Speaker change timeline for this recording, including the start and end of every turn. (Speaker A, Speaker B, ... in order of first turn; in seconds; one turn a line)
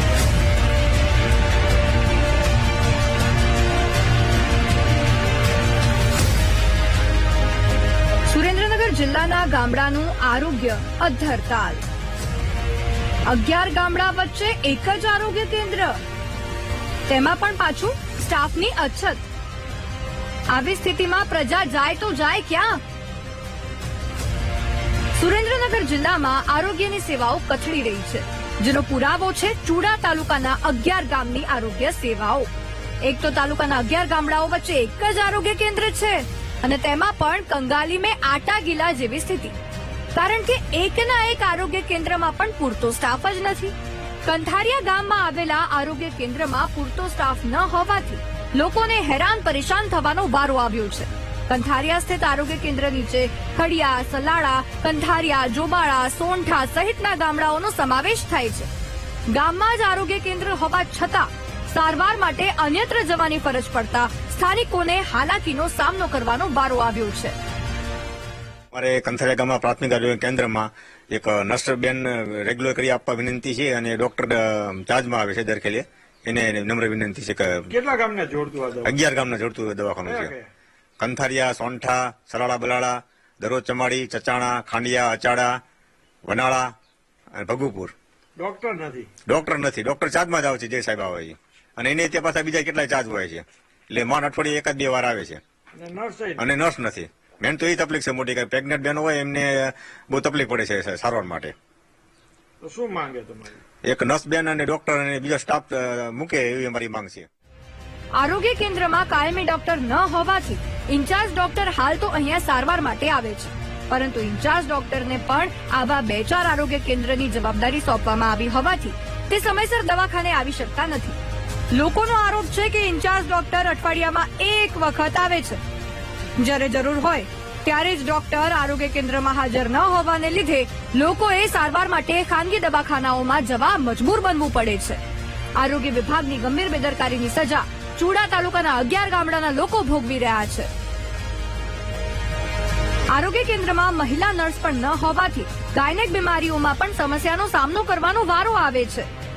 Speaker A: 8.2-11.8
Speaker A: 13.2-16.0
Speaker A: 17.1-19.2
Speaker A: 20.5-22.8
Speaker A: 25.1-32.5
Speaker A: 33.0-39.5
Speaker A: 40.1-58.7
Speaker A: 59.3-67.3
Speaker B: 68.7-77.7
Speaker C: 77.7-78.9
Speaker B: 78.8-80.3
Speaker C: 80.0-80.5
Speaker B: 81.0-85.6
Speaker B: 86.2-86.7
Speaker B: 87.3-87.9
Speaker C: 88.4-89.1
Speaker B: 89.3-95.4
Speaker C: 95.7-96.5
Speaker B: 96.4-101.5
Speaker C: 102.6-103.6
Speaker B: 103.8-107.3
Speaker A: 108.1-121.2
Speaker A: 121.7-125.6
Speaker A: 126.4-135.0
Speaker A: 135.6-140.7
Speaker A: 143.1-149.1